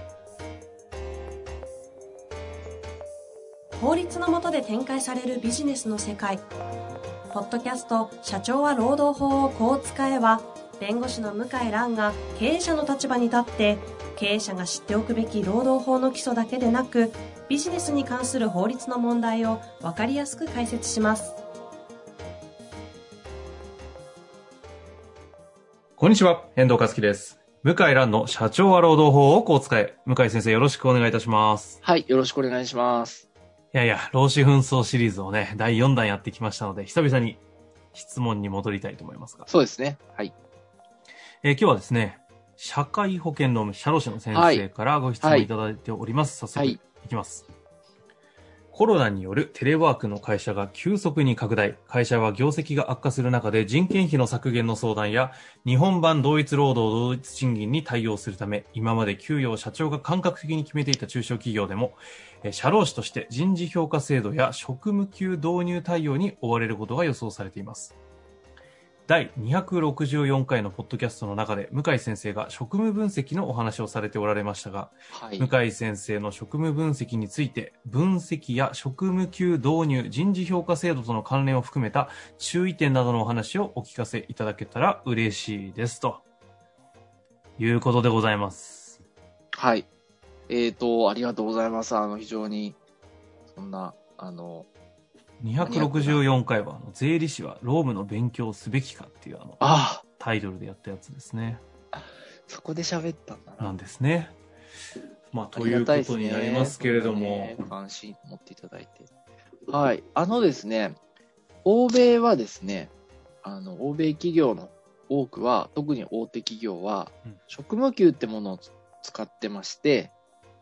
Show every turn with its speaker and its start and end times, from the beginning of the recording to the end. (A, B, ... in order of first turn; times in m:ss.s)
0:03.8-0:06.4 A
0:07.3-0:21.4 A
0:26.0-0:31.8 B
0:31.8-0:33.3 C
0:33.7-0:37.4 B
0:37.9-0:39.5 B
0:39.5-0:40.3 C
0:41.4-0:47.4 B
0:44.3-0:44.7 C
0:45.2-0:45.5 C
0:46.6-0:46.8 C
0:48.7-1:08.0 B
1:09.1-1:26.2 B
1:15.1-1:15.5 C
1:27.6-1:29.0 B
1:29.5-1:29.9 C
1:30.5-1:32.8 C
1:33.5-1:34.7 C
1:35.4-1:39.6 B
1:35.6-1:36.2 C
1:39.6-1:40.0 C
1:40.2-1:41.6 B
1:41.9-1:43.8 C
1:43.6-1:44.4 B
1:45.3-1:47.6 B
1:45.5-1:49.1 C
1:49.7-1:51.0 C
1:51.6-1:52.9 C
1:53.4-2:00.1 C